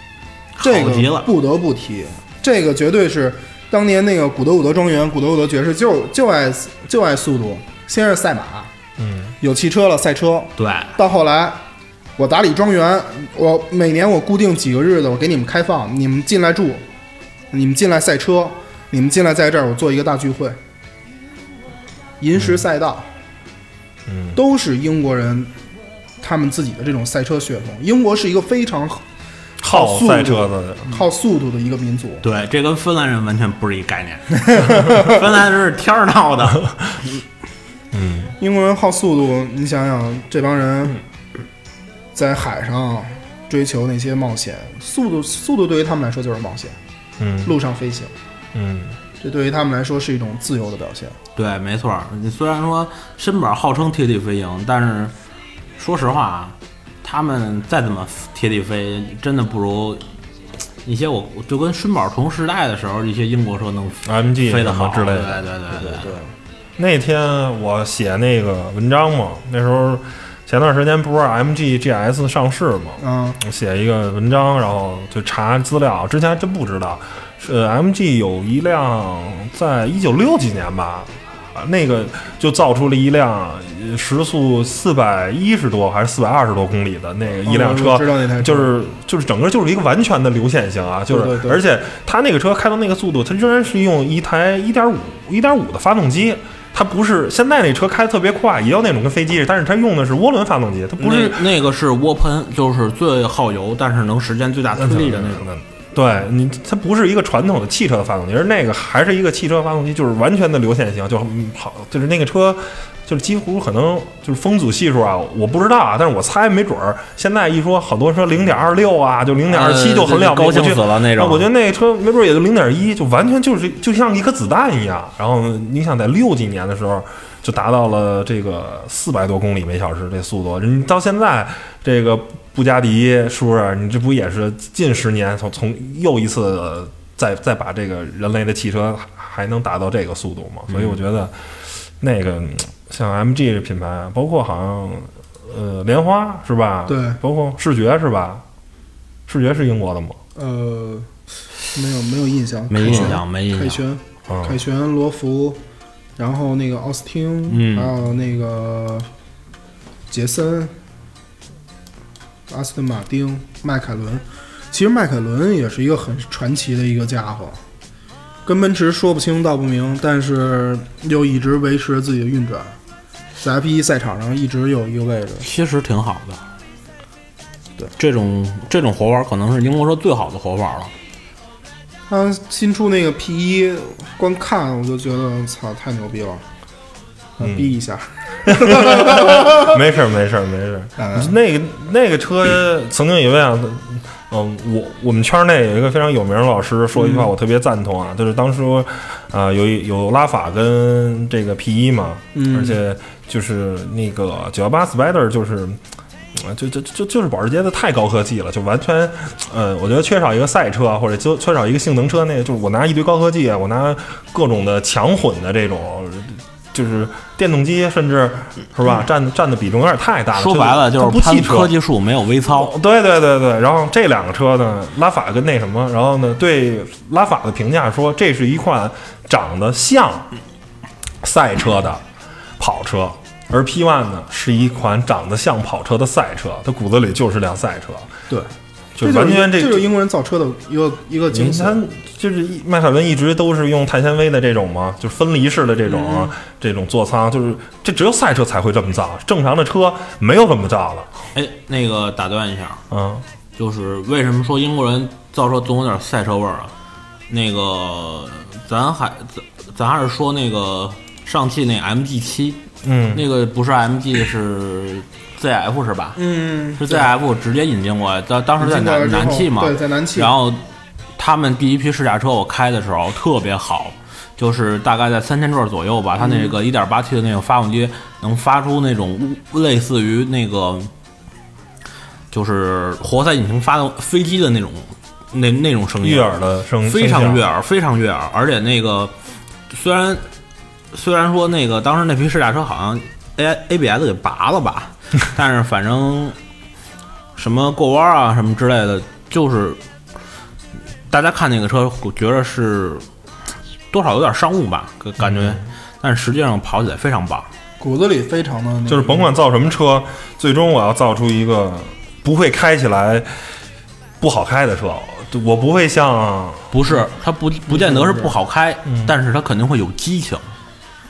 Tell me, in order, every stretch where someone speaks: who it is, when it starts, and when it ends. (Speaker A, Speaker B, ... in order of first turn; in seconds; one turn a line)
Speaker A: 0.6-1.3
Speaker B: 0.6-8.7
Speaker C: 9.0-9.3
Speaker B: 9.4-11.6
Speaker A: 10.6-10.9
Speaker B: 12.2-16.8
Speaker B: 17.5-20.6
Speaker B: 22.2-23.1
Speaker C: 24.1-24.4
Speaker B: 24.3-25.5
Speaker B: 26.2-29.0
Speaker C: 29.6-30.9
Speaker B: 29.6-32.2
Speaker A: 32.2-36.7
Speaker B: 34.5-35.2
Speaker C: 37.9-38.3
Speaker B: 38.4-41.0
Speaker B: 42.1-46.8
Speaker C: 47.2-47.5
Speaker B: 47.4-48.1
Speaker C: 48.5-49.0
Speaker B: 49.2-51.1
Speaker A: 51.3-55.1
Speaker A: 55.8-60.0
Speaker A: 60.8-66.2
Speaker C: 64.0-65.4
Speaker B: 65.7-66.3
Speaker C: 66.8-101.5
Speaker B: 73.0-73.4
Speaker B: 87.4-88.7
Speaker B: 91.1-91.6
Speaker A: 101.0-105.5
Speaker C: 104.8-141.3
Speaker A: 119.5-121.5
Speaker A: 140.7-141.0
Speaker C: 142.0-148.4
Speaker B: 146.9-147.2
Speaker C: 149.3-150.2
Speaker B: 150.3-151.1
Speaker B: 151.7-155.6
Speaker A: 152.7-153.8
Speaker C: 152.8-153.1
Speaker C: 154.3-154.6
Speaker B: 156.2-159.1
Speaker A: 157.5-157.9
Speaker B: 160.1-160.7
Speaker B: 162.5-167.6
Speaker B: 168.4-172.8
Speaker B: 173.4-175.5
Speaker A: 175.4-176.4
Speaker A: 177.9-180.9
Speaker B: 182.1-186.4
Speaker B: 187.4-189.7
Speaker C: 187.4-187.7
Speaker C: 188.4-205.8
Speaker B: 191.0-191.3
Speaker B: 197.0-197.3
Speaker B: 202.3-202.8
Speaker C: 206.3-221.7
Speaker A: 220.3-222.7
Speaker C: 222.5-230.3
Speaker C: 231.2-232.0
Speaker C: 232.6-238.1
Speaker C: 238.9-239.8
Speaker B: 239.0-241.8
Speaker C: 241.3-251.1
Speaker B: 245.9-246.3
Speaker A: 251.3-252.8
Speaker C: 252.9-253.2
Speaker A: 253.6-256.7
Speaker A: 257.3-262.6
Speaker C: 262.8-263.2
Speaker A: 263.1-266.2
Speaker B: 266.1-267.1
Speaker A: 266.8-270.6
Speaker B: 268.6-270.3
Speaker A: 271.1-280.9
Speaker B: 276.2-276.5
Speaker A: 282.3-289.1
Speaker C: 286.0-287.4
Speaker A: 289.7-290.2
Speaker A: 290.9-296.4
Speaker A: 297.4-299.8
Speaker A: 301.1-303.1
Speaker A: 303.9-307.5
Speaker C: 305.2-305.6
Speaker B: 307.8-309.3
Speaker C: 308.9-313.3
Speaker C: 314.2-316.8
Speaker A: 316.7-320.5
Speaker B: 317.7-318.3